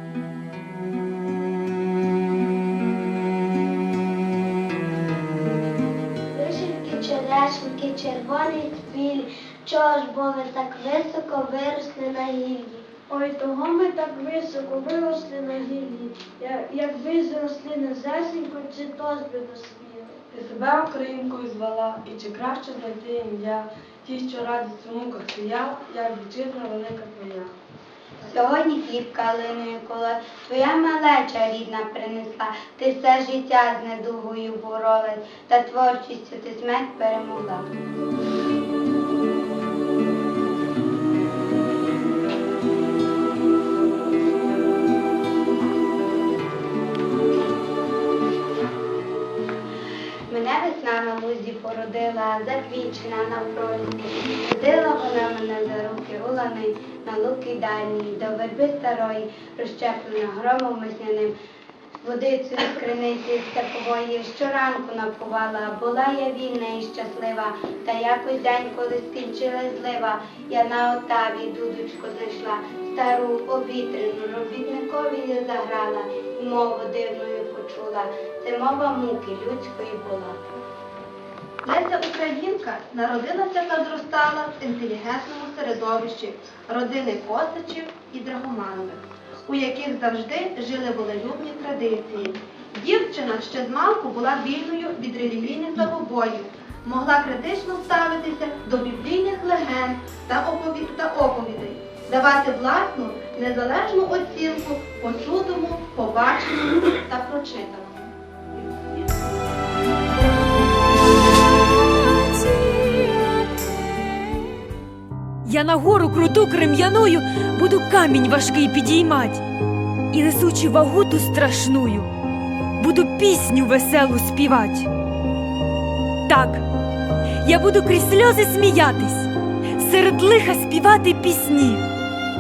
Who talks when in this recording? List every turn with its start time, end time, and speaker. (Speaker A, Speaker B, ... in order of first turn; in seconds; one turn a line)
Speaker A: 6.2-11.2
Speaker B: 8.2-8.5
Speaker B: 9.8-12.8
Speaker A: 13.0-20.0
Speaker B: 18.1-20.1
Speaker C: 20.3-27.6
Speaker D: 28.2-37.6
Speaker D: 50.3-61.3
Speaker D: 62.0-80.4
Speaker E: 81.6-109.0
Speaker F: 115.5-119.4
Speaker F: 120.1-122.1
Speaker F: 122.8-124.9
Speaker F: 126.3-126.6
Speaker F: 127.4-131.8